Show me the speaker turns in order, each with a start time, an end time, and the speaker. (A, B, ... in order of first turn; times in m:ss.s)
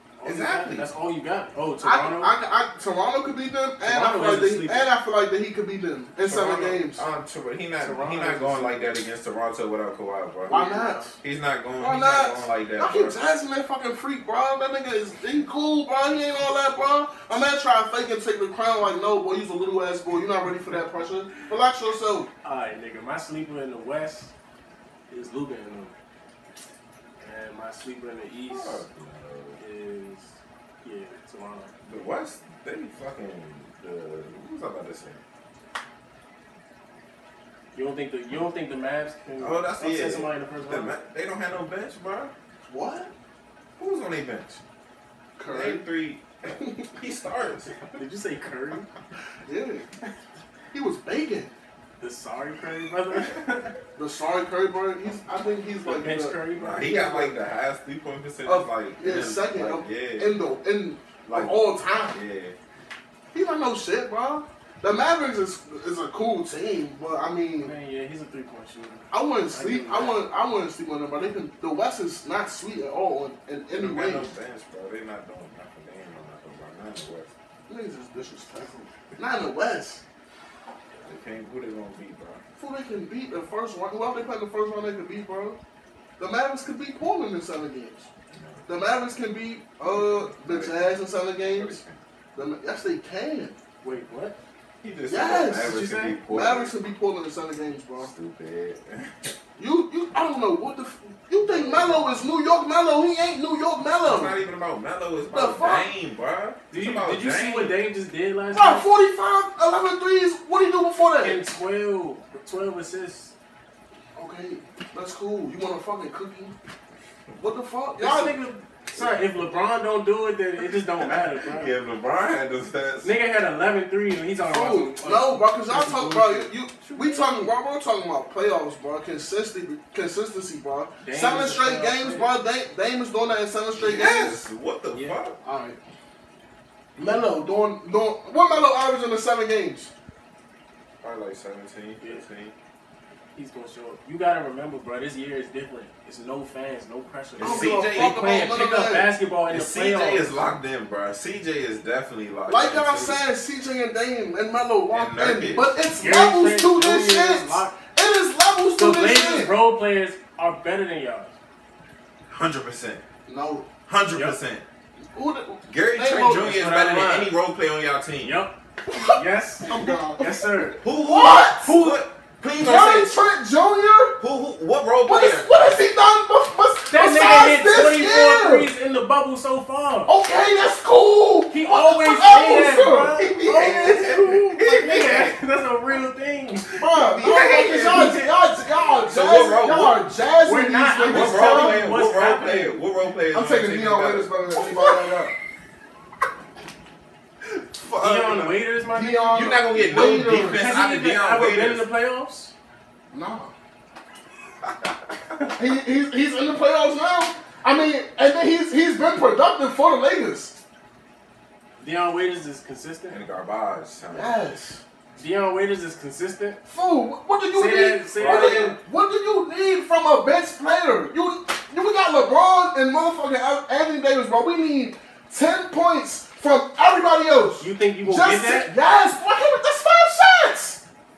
0:00.2-0:02.3 A
0:00.2-0:00.9 B
0:01.8-0:07.0 C
0:03.8-0:04.9 A
0:06.2-0:10.6 B
0:07.8-0:09.0 A
0:10.5-0:11.1 A
0:10.5-0:11.2 C
0:11.2-0:13.2 B
0:11.8-0:22.3 C
0:22.4-0:24.3 A
0:25.1-0:25.9 A
0:27.2-0:28.8 A
0:28.5-0:29.6 B
0:29.6-0:30.3 A
0:30.8-0:31.7 A
0:31.8-0:35.2 B
0:37.7-0:40.9 A
0:39.4-0:42.3 B
0:42.6-0:43.1 C
0:43.8-0:44.6 B
0:45.4-0:45.8 C
0:45.5-0:47.7 B
0:47.9-0:48.9 A
0:49.5-0:49.8 C
0:50.7-0:51.5 C
0:52.0-0:53.8 A
0:54.0-0:56.4 C
0:55.8-0:57.0 A
0:56.6-1:00.4 B
0:56.9-0:57.3 C
0:58.4-1:02.2 C
1:01.3-1:02.5 B
1:03.3-1:07.7 C
1:07.6-1:10.2 A
1:09.1-1:14.3 C
1:13.7-1:17.3 B
1:17.7-1:20.0 C
1:21.0-1:22.4 B
1:22.6-1:25.6 C
1:26.2-1:28.1 C
1:28.3-1:28.7 B
1:28.7-1:31.8 C
1:29.9-1:32.0 B
1:32.4-1:33.6 C
1:33.8-1:34.4 A
1:34.8-1:36.8 B
1:35.1-1:38.1 C
1:35.6-1:36.2 A
1:38.0-1:39.4 B
1:39.6-1:44.4 C
1:41.4-1:42.1 B
1:44.0-1:47.8 B
1:45.3-1:45.9 C
1:46.7-1:48.9 A
1:48.5-1:51.4 C
1:51.2-1:53.3 A
1:54.2-1:56.5 C
1:57.4-1:58.4 C
1:58.0-2:01.7 A
2:01.1-2:03.1 B
2:03.0-2:07.2 A
2:04.4-2:14.4 C
2:11.0-2:12.3 A
2:13.8-2:15.4 B
2:14.9-2:15.2 A
2:15.4-2:15.8 C
2:17.0-2:19.9 C
2:21.0-2:22.5 B
2:23.4-2:30.4 A
2:27.4-2:28.2 B
2:27.4-2:29.1 C
2:29.5-2:33.2 B
2:32.5-2:39.6 C
2:34.9-2:35.7 B
2:36.0-2:37.8 A
2:38.8-2:41.3 A
2:42.3-2:43.0 B
2:43.3-2:43.7 C
2:43.9-2:44.6 B
2:45.1-2:46.5 C
2:45.7-2:48.4 B
2:46.3-2:47.3 A
2:48.2-2:48.5 A
2:48.9-2:51.7 C
2:49.2-2:50.8 A
2:50.8-2:53.1 B
2:51.6-2:52.0 A
2:52.6-2:54.2 C
2:54.2-2:55.8 B
2:55.0-2:58.7 C
2:56.9-3:00.1 A
3:00.1-3:03.2 C
3:01.5-3:07.1 A
3:03.2-3:05.4 B
3:06.8-3:11.9 C
3:07.0-3:08.2 B
3:07.7-3:08.3 A
3:09.1-3:10.0 B
3:10.4-3:12.8 A
3:11.1-3:15.1 B
3:13.3-3:15.3 C
3:17.7-3:18.6 B
3:18.0-3:19.5 A
3:18.9-3:20.8 C
3:19.3-3:21.9 B
3:20.5-3:22.5 A
3:23.1-3:23.5 C
3:25.4-3:30.6 C
3:31.8-3:33.2 A
3:33.1-3:34.4 B
3:34.1-3:34.8 C
3:35.2-3:36.6 A
3:36.7-3:50.8 C
3:37.6-3:38.8 A
3:38.2-3:38.8 B
3:47.6-3:48.7 A